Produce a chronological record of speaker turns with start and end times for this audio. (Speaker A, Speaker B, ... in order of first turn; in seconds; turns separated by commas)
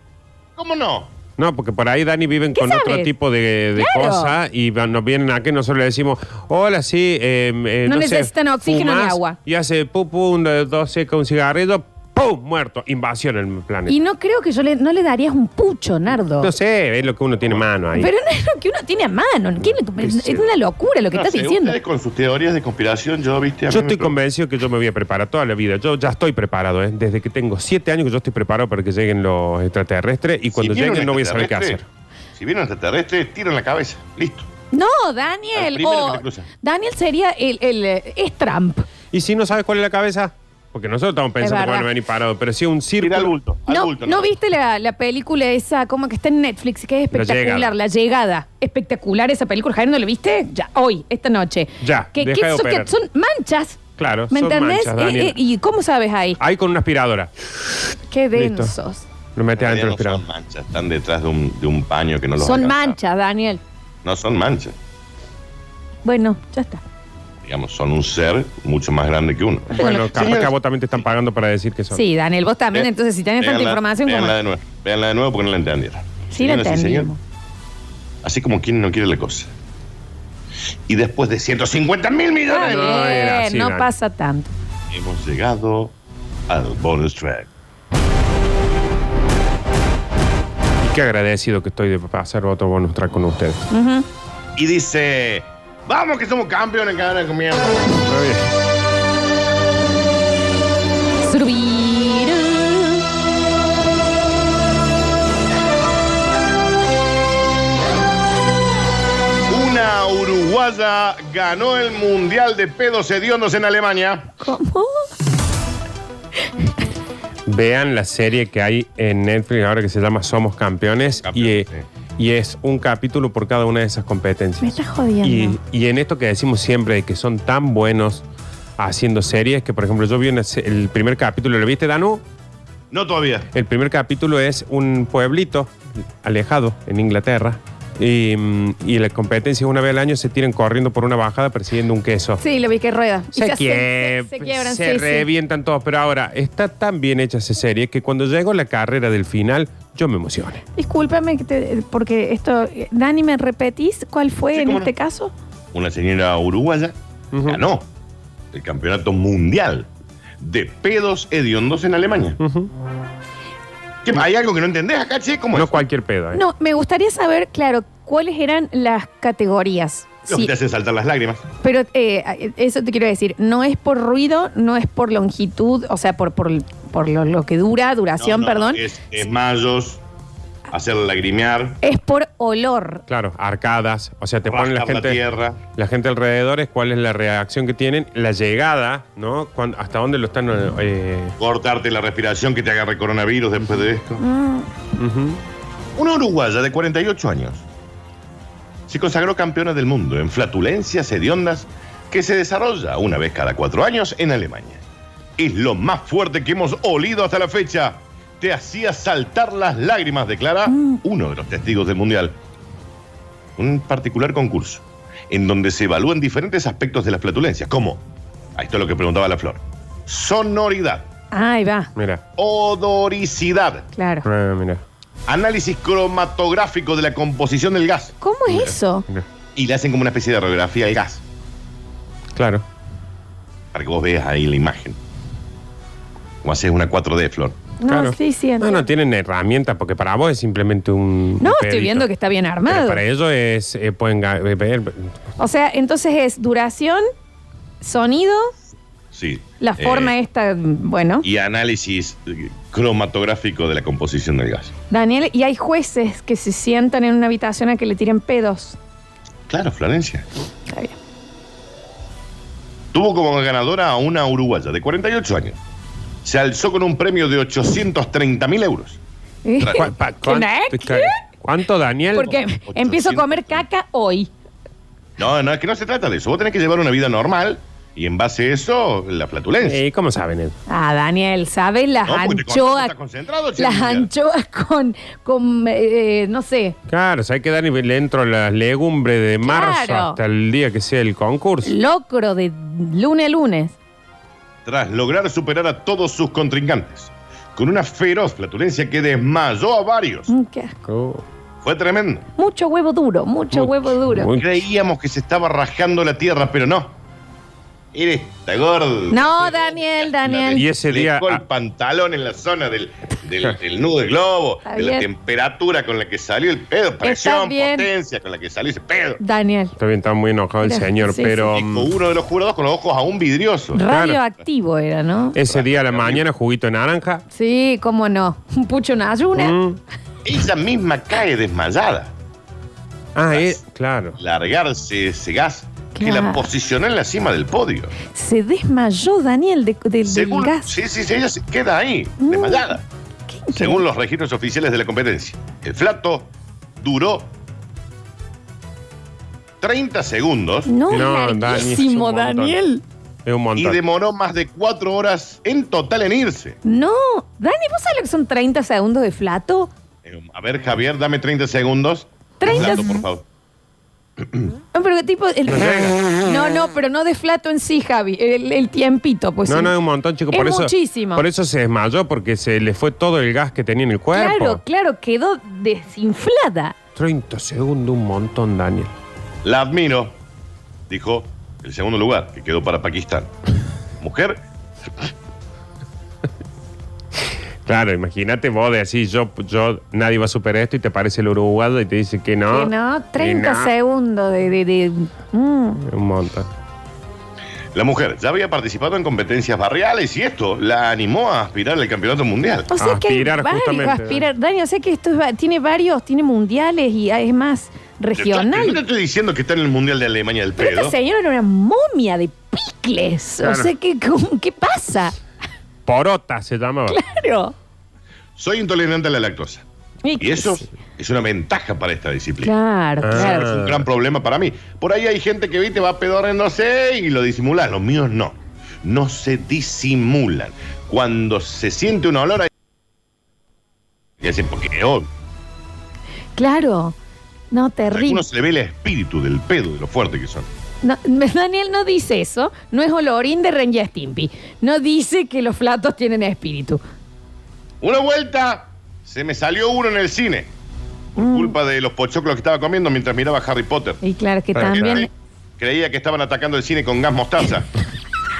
Speaker A: 0.6-1.1, Speaker B: 1.4-13.9, Speaker C: 2.5-3.1, Speaker C: 3.8-4.3, Speaker C: 7.8-9.4, Speaker C: 13.9-16.5, Speaker B: 16.4-18.1, Speaker C: 17.9-21.8, Speaker B: 20.0-20.4, Speaker A: 21.1-24.1, Speaker B: 23.7-31.9, Speaker A: 30.5-31.8, Speaker A: 32.3-34.5, Speaker C: 34.7-38.9, Speaker A: 35.5-36.5, Speaker B: 39.1-43.3, Speaker C: 41.4-41.9, Speaker A: 43.0-44.3, Speaker C: 43.7-53.8, Speaker B: 47.1-47.7, Speaker B: 51.8-52.9, Speaker B: 54.0-55.4, Speaker C: 54.3-56.4, Speaker B: 56.4-58.7, Speaker C: 58.1-59.0, Speaker B: 59.4-60.2, Speaker A: 59.5-63.0, Speaker C: 62.4-63.6, Speaker A: 64.0-64.8, Speaker C: 66.0-66.8, Speaker A: 67.4-71.0, Speaker B: 69.7-72.0, Speaker C: 69.8-70.3, Speaker C: 71.9-74.3, Speaker A: 73.4-77.1, Speaker C: 76.3-77.2, Speaker A: 78.2-79.5, Speaker A: 80.9-82.9, Speaker C: 82.5-84.5, Speaker B: 82.6-83.9, Speaker A: 84.9-85.9, Speaker A: 86.5-87.5, Speaker B: 90.8-93.7, Speaker C: 93.7-94.0, Speaker A: 94.5-98.0, Speaker B: 98.0-98.5, Speaker C: 101.2-103.0, Speaker A: 109.5-114.3, Speaker C: 114.4-115.0, Speaker B: 117.5-128.2, Speaker A: 121.2-121.8, Speaker C: 124.6-125.6, Speaker B: 128.8-132.2, Speaker A: 132.9-133.5, Speaker B: 133.5-142.4, Speaker C: 142.4-145.3, Speaker B: 143.3-150.6, Speaker C: 150.8-155.3, Speaker A: 154.5-154.9, Speaker A: 155.7-157.9, Speaker B: 157.3-157.6, Speaker A: 158.5-159.9, Speaker A: 160.4-162.4, Speaker B: 162.4-162.7, Speaker A: 164.0-165.8, Speaker B: 165.5-166.4, Speaker C: 166.3-170.5, Speaker A: 170.3-171.4, Speaker C: 171.6-178.8, Speaker A: 178.2-180.0, Speaker A: 180.7-181.8, Speaker C: 181.8-183.0, Speaker B: 183.1-185.2, Speaker A: 184.4-185.6, Speaker B: 185.7-191.3, Speaker A: 191.4-194.2, Speaker C: 194.2-194.7, Speaker B: 195.0-195.4, Speaker A: 195.9-197.6, Speaker A: 198.9-204.8, Speaker A: 205.4-212.4, Speaker C: 210.7-211.0, Speaker A: 213.6-218.0, Speaker A: 218.6-221.1, Speaker C: 221.3-221.9, Speaker B: 221.9-222.2, Speaker A: 222.4-223.9, Speaker C: 223.9-224.2, Speaker B: 224.2-224.8, Speaker A: 225.3-228.7, Speaker C: 228.2-229.0, Speaker A: 229.5-231.2, Speaker B: 232.3-232.6, Speaker A: 233.7-235.0, Speaker A: 236.4-237.6, Speaker C: 237.8-238.8, Speaker B: 237.9-242.1, Speaker C: 241.4-243.0, Speaker B: 242.7-245.1, Speaker C: 245.4-247.0, Speaker C: 247.8-248.5, Speaker A: 249.1-250.1, Speaker C: 249.6-251.3, Speaker A: 251.2-254.7, Speaker C: 254.9-258.8, Speaker A: 259.5-260.2, Speaker C: 260.7-260.9, Speaker A: 262.9-265.6, Speaker A: 266.2-269.0, Speaker C: 269.4-271.2, Speaker A: 269.6-269.9, Speaker B: 269.7-272.4, Speaker C: 272.1-274.3, Speaker A: 272.6-273.6, Speaker A: 275.2-279.8, Speaker B: 279.6-280.6, Speaker C: 280.7-282.9, Speaker A: 282.1-284.1, Speaker C: 283.6-286.8, Speaker B: 286.9-291.7, Speaker C: 289.4-290.2, Speaker C: 291.6-293.7, Speaker A: 294.6-300.3, Speaker C: 300.3-300.7, Speaker B: 300.9-301.2, Speaker A: 301.6-302.2, Speaker C: 302.4-304.3, Speaker B: 303.5-304.5, Speaker A: 304.4-306.9, Speaker A: 307.9-319.2, Speaker C: 309.1-310.7, Speaker B: 310.5-311.4, Speaker C: 314.6-315.1, Speaker C: 317.0-317.9, Speaker C: 319.2-319.8, Speaker B: 319.8-321.9, Speaker C: 320.6-321.6, Speaker A: 321.5-323.8, Speaker C: 323.7-325.4, Speaker B: 323.9-324.2, Speaker B: 325.3-327.2, Speaker A: 325.4-326.2, Speaker C: 327.3-329.6, Speaker B: 329.4-329.8, Speaker A: 330.2-332.1, Speaker B: 333.1-334.1, Speaker A: 333.3-333.6, Speaker A: 334.2-337.9, Speaker C: 335.9-336.5, Speaker C: 338.1-340.8, Speaker A: 340.1-342.8, Speaker C: 342.2-343.8, Speaker A: 343.5-347.3, Speaker A: 349.6-350.8, Speaker C: 350.7-352.8, Speaker B: 350.9-352.6, Speaker B: 353.2-353.8, Speaker A: 353.6-356.6, Speaker C: 356.6-359.7, Speaker A: 360.0-363.3, Speaker C: 362.4-363.0, Speaker A: 364.2-364.5, Speaker C: 364.7-369.7, Speaker B: 365.5-366.1, Speaker B: 369.5-374.6, Speaker C: 370.3-371.2, Speaker C: 374.1-376.8, Speaker B: 376.9-378.9, Speaker A: 379.4-380.2, Speaker A: 380.9-383.3, Speaker A: 384.0-384.4, Speaker B: 387.6-393.7, Speaker C: 392.5-395.8, Speaker B: 395.8-396.5, Speaker A: 397.7-402.7, Speaker C: 402.7-408.8, Speaker B: 402.8-404.2, Speaker A: 408.1-410.9, Speaker C: 410.6-415.2, Speaker B: 413.4-413.7, Speaker B: 415.9-417.0, Speaker C: 416.9-417.5, Speaker A: 418.4-419.6, Speaker C: 420.0-420.6, Speaker A: 420.2-422.6, Speaker C: 422.4-423.5, Speaker B: 423.0-423.8, Speaker A: 423.1-432.5, Speaker A: 434.2-435.1, Speaker C: 436.4-436.9, Speaker C: 437.5-438.2, Speaker A: 437.9-440.5, Speaker C: 440.8-446.8, Speaker A: 447.8-450.5, Speaker A: 451.1-454.0, Speaker C: 451.2-451.5, Speaker C: 454.0-455.1, Speaker B: 454.6-455.0, Speaker A: 454.7-457.7